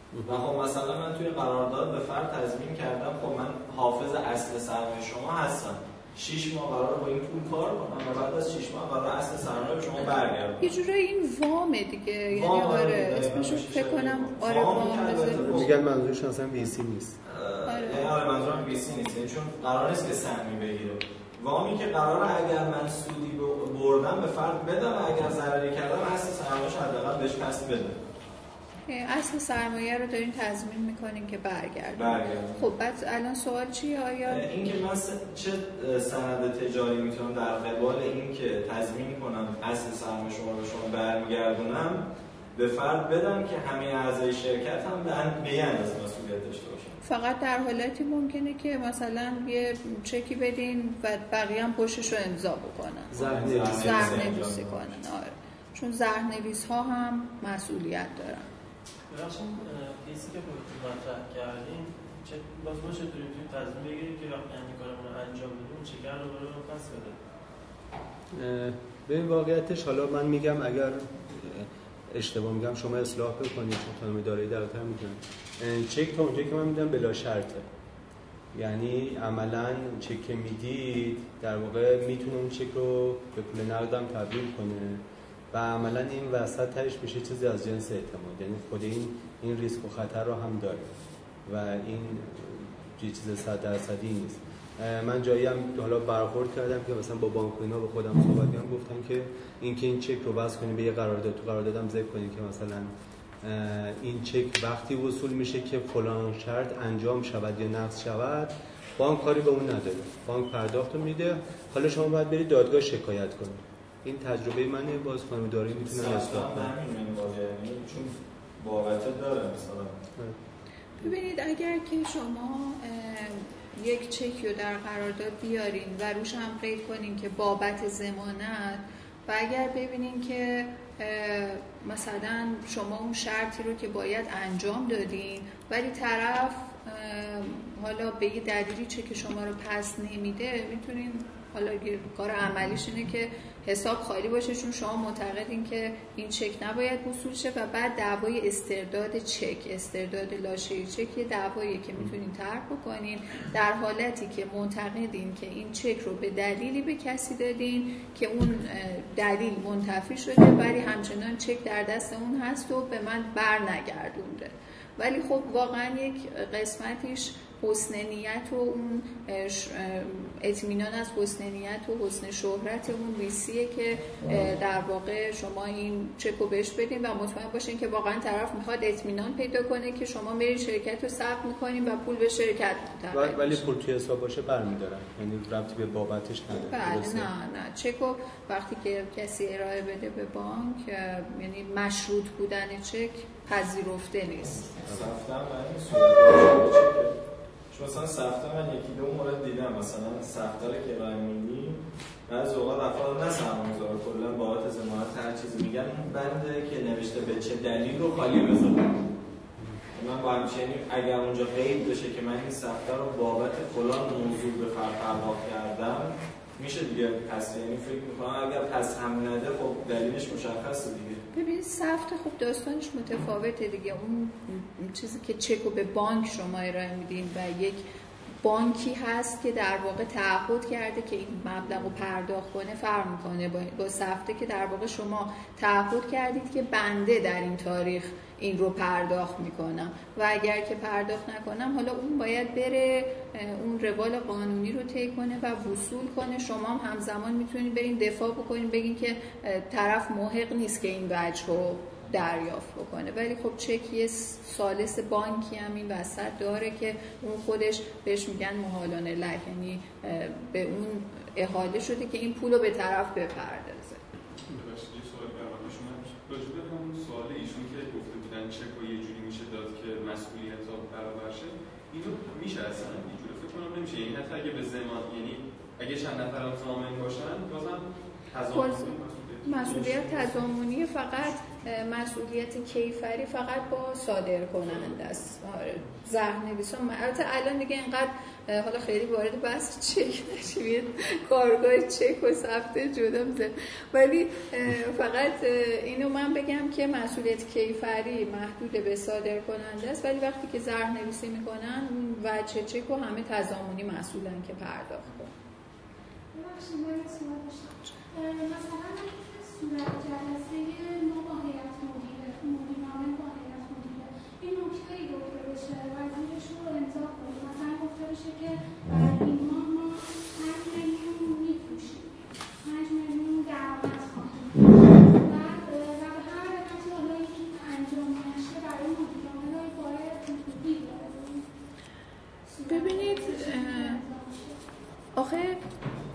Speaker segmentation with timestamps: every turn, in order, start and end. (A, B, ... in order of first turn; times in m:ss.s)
0:00.1-0:00.4 A
0:00.2-0:10.6 B
0:10.6-0:15.6 C
0:12.3-0:15.8 B
0:15.4-0:17.2 A
0:17.2-0:28.0 B
0:17.7-0:18.1 C
0:28.9-0:34.5 C
0:32.0-0:32.6 B
0:34.2-0:42.0 B
0:42.6-0:47.0 B
0:47.0-0:53.2 C
0:53.1-0:54.4 A
0:53.2-0:54.8 B
0:53.7-0:58.5 C
0:59.1-1:07.2 D
1:08.3-1:17.7 A
1:18.5-1:30.9 A
1:31.5-1:42.9 A
1:43.4-1:56.7 A
1:55.9-2:00.0 B
2:01.0-3:03.7 C
3:03.1-3:07.3 A
3:06.7-3:14.8 C
3:14.8-3:17.2 B
3:17.7-3:29.0 B
3:29.9-3:41.2 B
3:41.3-3:47.9 C
3:48.4-4:24.0 C
4:24.5-4:40.4 E
4:38.5-5:05.3 C
5:06.3-5:31.5 F
5:32.5-5:34.6 F
5:32.7-5:34.0 C
5:35.2-5:35.6 C